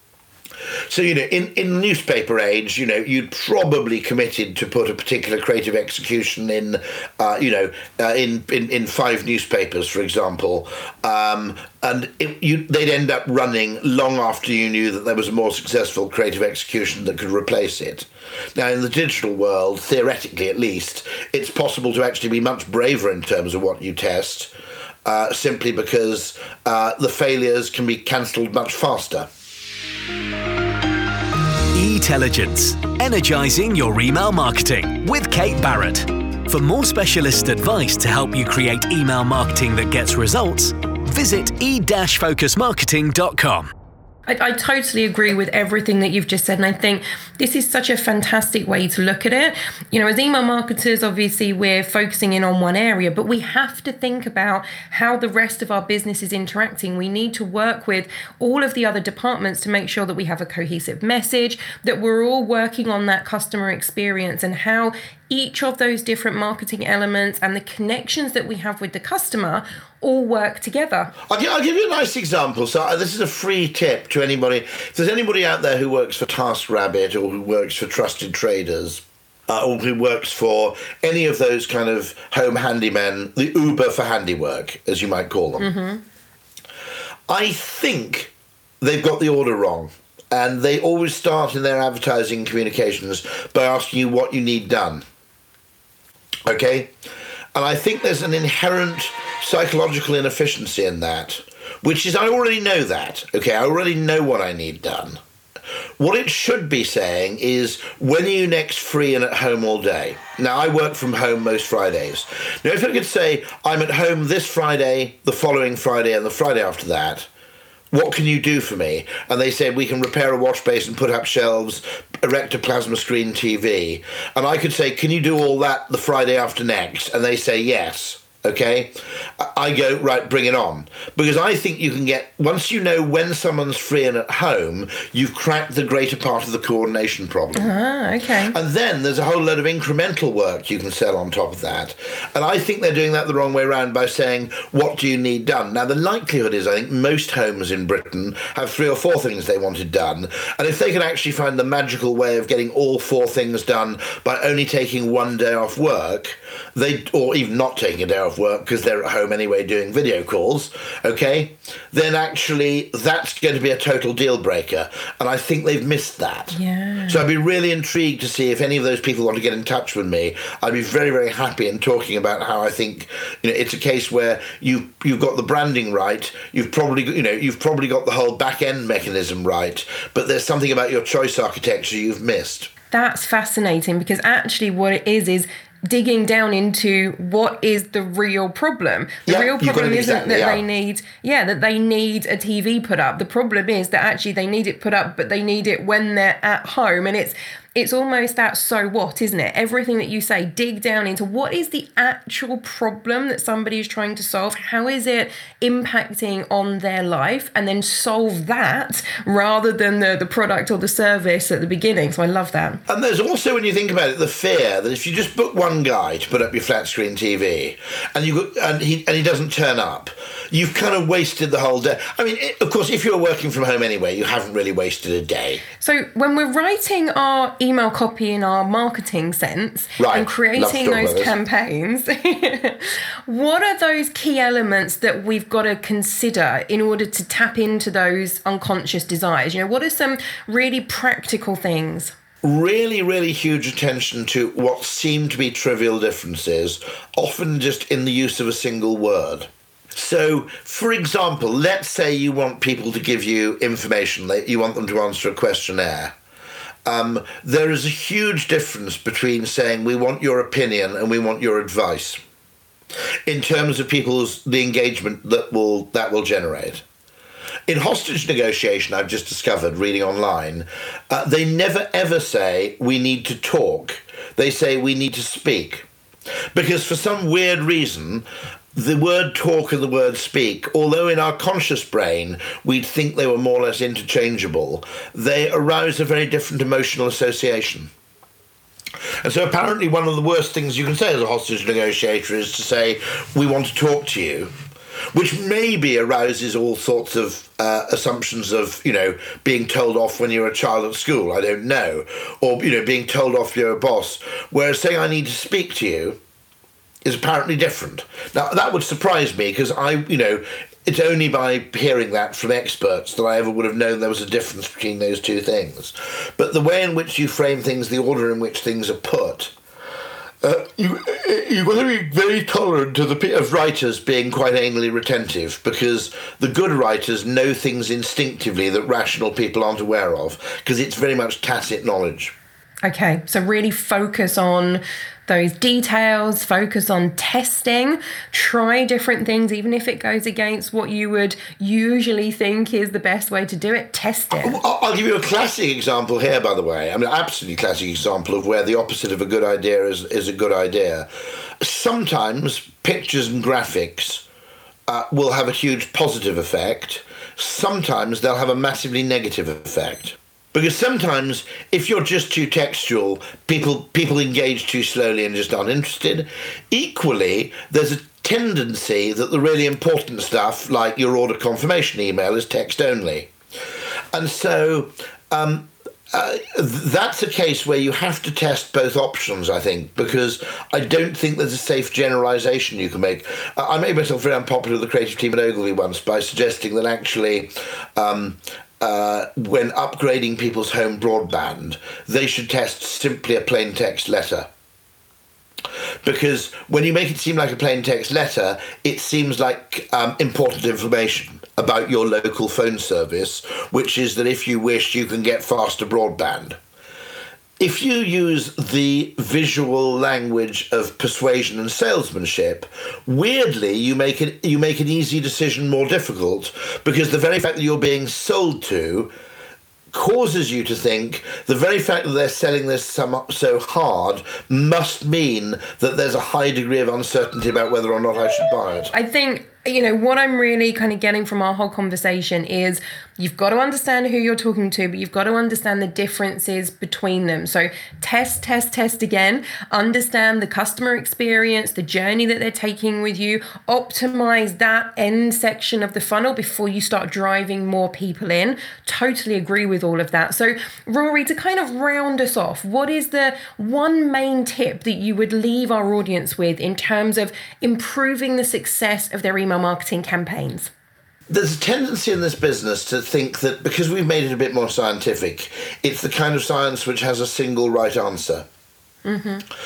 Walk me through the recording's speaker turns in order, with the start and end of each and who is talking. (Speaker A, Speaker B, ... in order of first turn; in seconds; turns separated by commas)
Speaker A: 0.9-24.5, Speaker A: 25.0-29.3, Speaker B: 31.7-43.7, Speaker C: 44.3-71.1, Speaker A: 71.2-85.7, Speaker C: 85.6-86.0, Speaker A: 87.3-95.0, Speaker A: 96.5-96.9, Speaker A: 97.5-105.2, Speaker A: 106.0-117.3, Speaker A: 117.9-137.7, Speaker C: 137.5-138.5, Speaker A: 138.5-182.7, Speaker C: 166.5-167.2, Speaker C: 182.9-212.8, Speaker A: 189.2-190.6, Speaker A: 212.9-225.6, Speaker C: 225.8-242.1, Speaker A: 230.0-231.3, Speaker A: 242.4-256.1, Speaker A: 256.8-262.2, Speaker A: 263.2-266.8, Speaker A: 267.7-275.9, Speaker A: 276.5-287.9, Speaker A: 289.2-294.5, Speaker A: 295.1-306.2, Speaker A: 307.0-319.5, Speaker A: 320.4-332.3, Speaker C: 332.8-344.6, Speaker A: 344.4-351.1, Speaker A: 351.6-354.2, Speaker A: 354.9-373.3, Speaker A: 374.1-394.5, Speaker A: 396.0-406.6, Speaker A: 407.6-419.1, Speaker A: 419.9-428.9, Speaker C: 428.9-460.7, Speaker A: 461.3-468.4, Speaker C: 469.0-469.4